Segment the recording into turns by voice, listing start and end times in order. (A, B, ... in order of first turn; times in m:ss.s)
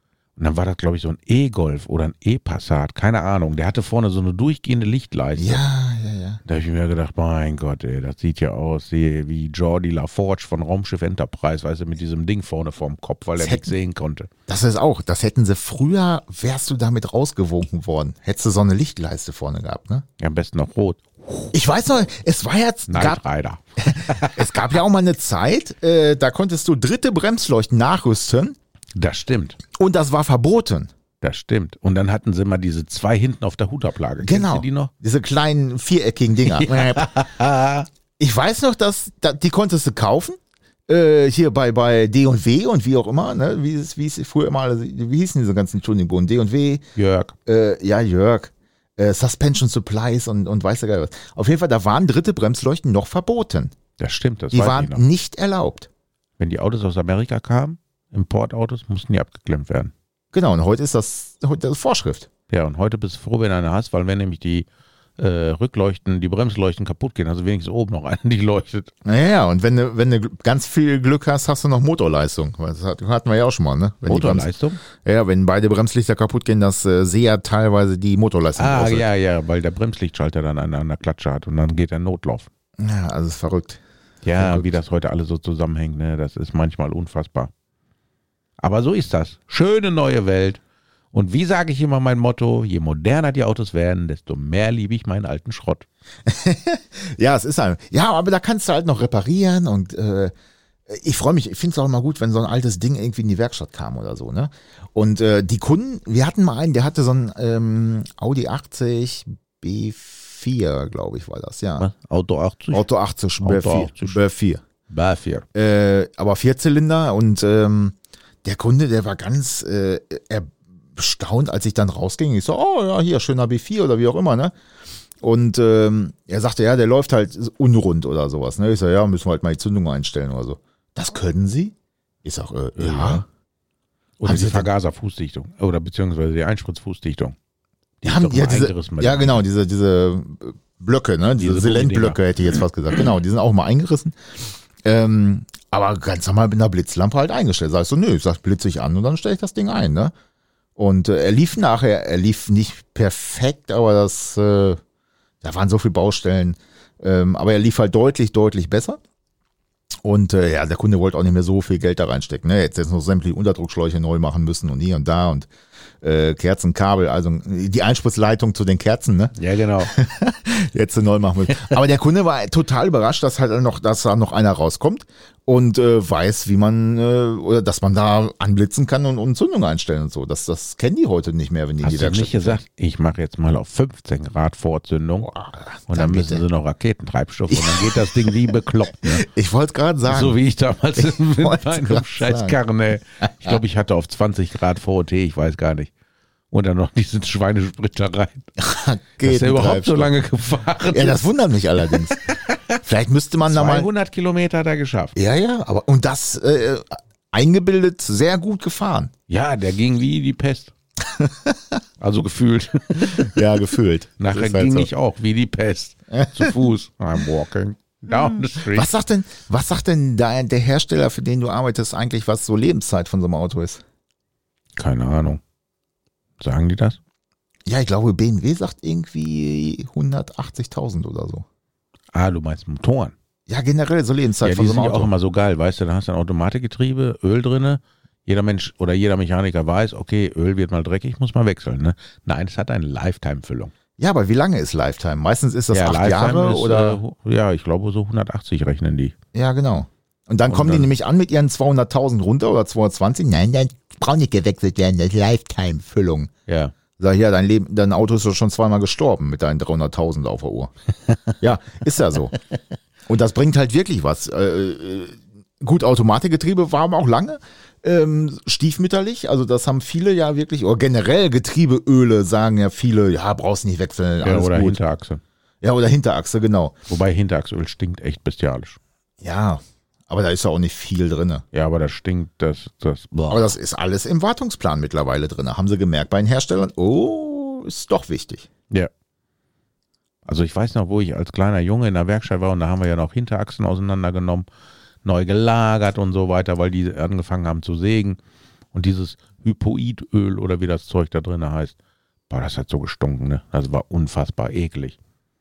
0:00.4-0:05.6 A
0:05.4-0:06.4 B
0:06.4-0:14.3 A
0:13.4-0:13.7 B
0:14.5-0:20.1 B
0:20.2-0:21.5 A
0:21.5-0:23.2 B
0:22.9-0:24.6 A
0:23.8-0:28.6 B
0:29.0-0:29.6 A
0:29.8-0:30.9 B
0:31.2-0:34.9 A
0:34.2-0:37.1 B
0:36.5-0:37.9 A
0:38.2-0:46.8 B
0:47.0-0:47.4 A
0:47.5-0:53.8 B
0:54.0-0:55.0 A
0:54.5-0:55.9 B
0:56.4-0:59.9 A
1:00.3-1:02.3 B
1:02.5-1:04.7 A
1:05.2-1:08.9 A
1:09.0-1:19.0 B
1:14.1-1:14.8 A
1:18.6-1:22.5 A
1:22.8-1:23.8 B
1:24.2-1:27.5 A
1:24.4-1:24.7 B
1:28.6-1:30.6 A
1:31.1-1:35.9 A
1:36.3-1:40.3 B
1:40.9-1:51.9 B
1:51.8-1:52.9 A
1:52.7-1:54.6 B
1:53.4-1:54.2 A
1:54.9-1:55.5 A
1:55.6-2:04.5 B
2:05.2-2:13.2 B
2:12.8-2:13.2 A
2:14.2-2:17.4 A
2:14.2-2:14.7 B
2:18.0-2:19.4 A
2:18.0-2:24.2 B
2:21.4-2:22.2 A
2:24.8-2:30.1 B
2:30.8-2:34.8 B
2:35.4-2:39.0 B
2:40.0-2:45.5 B
2:46.0-3:02.6 B
2:49.4-2:49.9 A
3:01.8-3:05.3 A
3:05.2-3:06.4 B
3:05.9-3:09.3 A
3:07.5-3:08.5 B
3:09.0-3:10.4 B
3:10.1-3:15.9 A
3:11.0-3:12.6 B
3:16.5-3:18.5 A
3:18.6-3:20.1 B
3:19.2-3:21.2 A
3:20.9-3:22.2 B
3:22.2-3:22.8 A
3:22.8-3:23.9 B
3:23.5-3:25.2 A
3:25.2-3:29.1 B
3:29.3-3:30.7 A
3:31.1-3:31.8 B
3:32.0-3:33.4 A
3:33.0-3:34.9 B
3:34.2-3:38.9 A
3:36.2-3:36.5 B
3:38.2-3:43.8 B
3:44.8-3:45.4 A
3:46.4-3:47.0 A
3:47.7-3:51.4 B
3:52.1-3:53.1 A
3:53.5-3:55.1 B
3:54.4-4:03.7 A
4:04.0-4:07.0 B
4:05.7-4:09.2 A
4:09.3-4:16.3 B
4:10.5-4:10.9 A
4:16.5-4:16.7 A
4:17.0-4:20.7 B
4:21.4-4:22.4 B
4:23.1-4:34.8 B
4:34.2-4:35.2 A
4:35.6-4:36.8 B
4:36.9-4:38.8 A
4:39.2-4:41.4 B
4:41.5-4:43.5 A
4:43.3-4:48.5 B
4:50.3-4:54.5 A
4:55.0-4:58.2 A
4:58.7-5:01.8 A
5:02.3-5:05.0 A